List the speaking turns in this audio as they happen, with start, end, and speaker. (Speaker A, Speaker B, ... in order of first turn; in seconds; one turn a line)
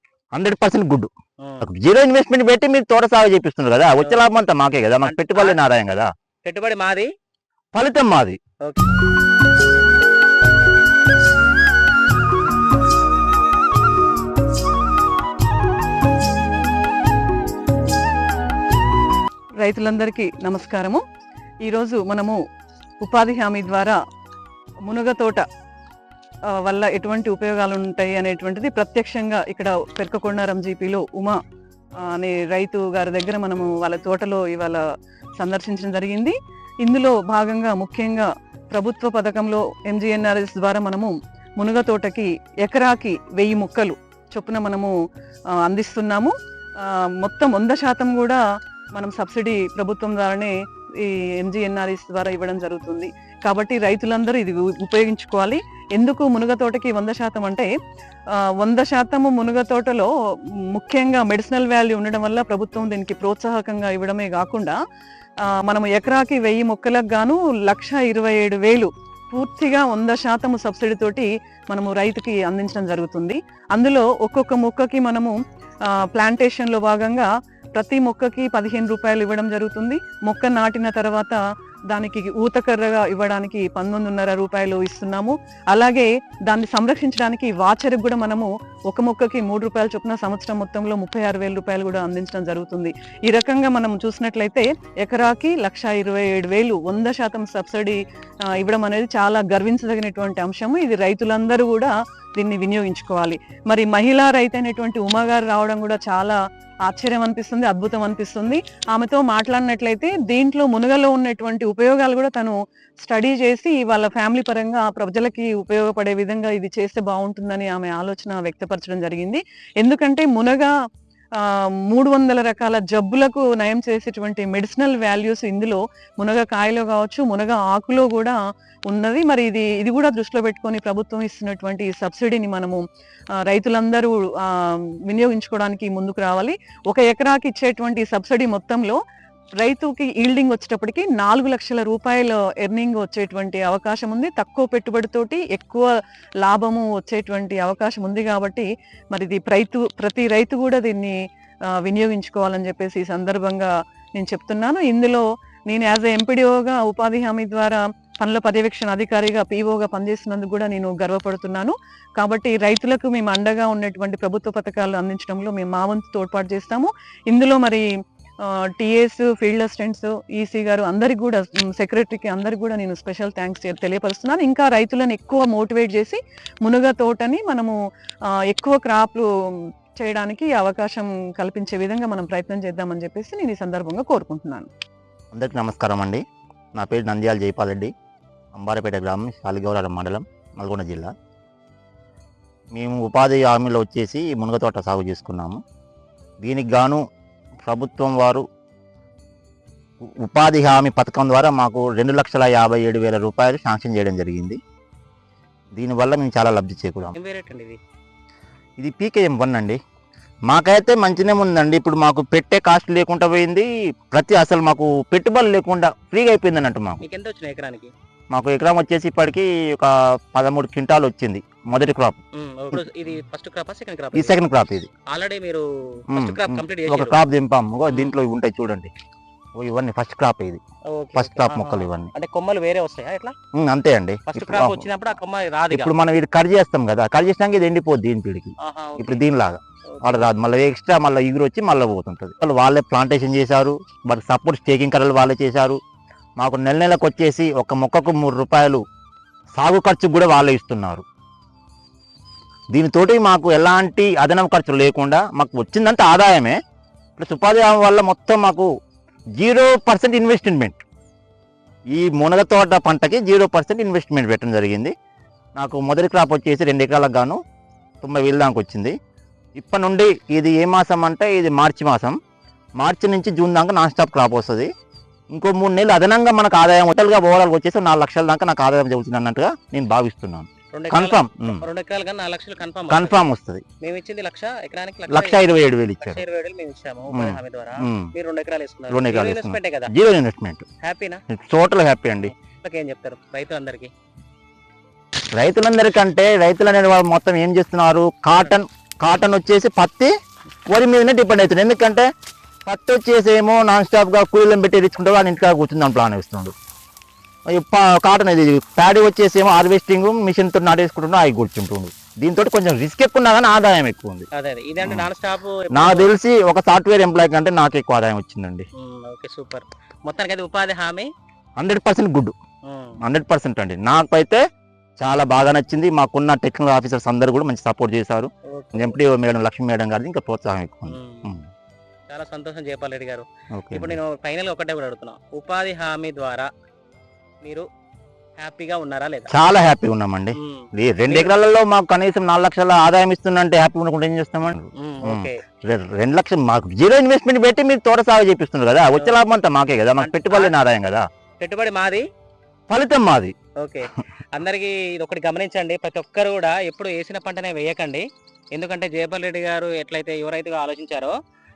Speaker A: 0.3-1.1
Speaker B: 1.4-1.7
Speaker A: 1.6-6.1
Speaker B: 4.0-4.3
Speaker B: 5.0-5.6
Speaker B: 6.5-7.1
Speaker A: 7.7-8.4
Speaker B: 8.6-8.9
Speaker C: 19.6-21.0
Speaker C: 21.6-22.4
Speaker C: 23.0-24.0
Speaker C: 24.9-25.5
Speaker C: 26.5-31.4
Speaker C: 32.1-34.8
Speaker C: 35.4-44.9
Speaker C: 45.6-48.4
Speaker C: 48.9-57.7
Speaker C: 58.6-60.1
Speaker C: 60.8-64.8
Speaker C: 65.5-75.4
Speaker C: 75.9-98.0
Speaker C: 98.5-106.3
Speaker C: 106.9-120.7
Speaker C: 121.4-128.3
Speaker C: 128.9-132.8
Speaker C: 133.4-139.0
Speaker C: 139.6-145.9
Speaker C: 146.4-151.2
Speaker C: 151.8-167.8
Speaker C: 168.8-177.8
Speaker C: 178.4-179.3
Speaker C: 180.0-184.7
Speaker A: 185.3-186.2
Speaker A: 186.8-187.9
Speaker A: 188.5-191.1
Speaker A: 192.7-195.6
Speaker A: 196.4-197.0
Speaker A: 197.7-198.4
Speaker A: 200.0-204.6
Speaker A: 205.8-207.2
Speaker B: 207.2-207.8
Speaker A: 208.8-209.8
Speaker A: 210.5-217.0
Speaker B: 217.0-217.9
Speaker A: 218.3-222.2
Speaker B: 222.4-224.4
Speaker A: 224.1-224.9
Speaker B: 225.1-227.2
Speaker A: 226.1-228.9
Speaker B: 227.9-228.1
Speaker A: 229.6-230.6
Speaker B: 230.9-233.3
Speaker A: 231.1-232.1
Speaker A: 233.5-234.9
Speaker B: 234.3-235.9
Speaker A: 235.7-245.8
Speaker B: 238.6-239.2
Speaker B: 240.0-240.3
Speaker A: 246.4-248.8
Speaker A: 249.6-251.1
Speaker A: 252.7-256.6
Speaker A: 257.2-258.7
Speaker A: 259.4-260.8
Speaker A: 261.9-264.9
Speaker A: 265.6-267.4
Speaker A: 268.0-268.9
Speaker A: 269.6-272.2
Speaker A: 272.8-274.7
Speaker A: 275.3-281.6
Speaker B: 280.7-283.2
Speaker A: 282.9-283.6
Speaker B: 283.8-285.4
Speaker A: 285.1-286.2
Speaker B: 286.0-289.9
Speaker A: 287.1-288.1
Speaker A: 288.9-290.6
Speaker B: 290.8-291.2
Speaker A: 291.3-292.3
Speaker B: 292.4-293.9
Speaker A: 295.3-300.1
Speaker A: 300.7-302.1
Speaker A: 302.6-306.5
Speaker A: 307.5-314.2
Speaker B: 314.3-316.1
Speaker A: 314.8-315.1
Speaker A: 315.7-318.7
Speaker B: 318.8-321.1
Speaker A: 321.6-322.3
Speaker B: 322.7-323.0
Speaker A: 323.0-324.4
Speaker A: 325.0-331.4
Speaker B: 328.5-329.0
Speaker B: 330.9-331.3
Speaker B: 332.1-336.5
Speaker A: 333.5-334.0
Speaker B: 338.4-339.3
Speaker A: 339.3-351.1
Speaker B: 340.4-341.4
Speaker B: 344.8-345.4
Speaker B: 350.0-350.6
Speaker B: 351.4-352.0
Speaker A: 352.7-353.3
Speaker B: 353.6-358.0
Speaker B: 358.6-361.1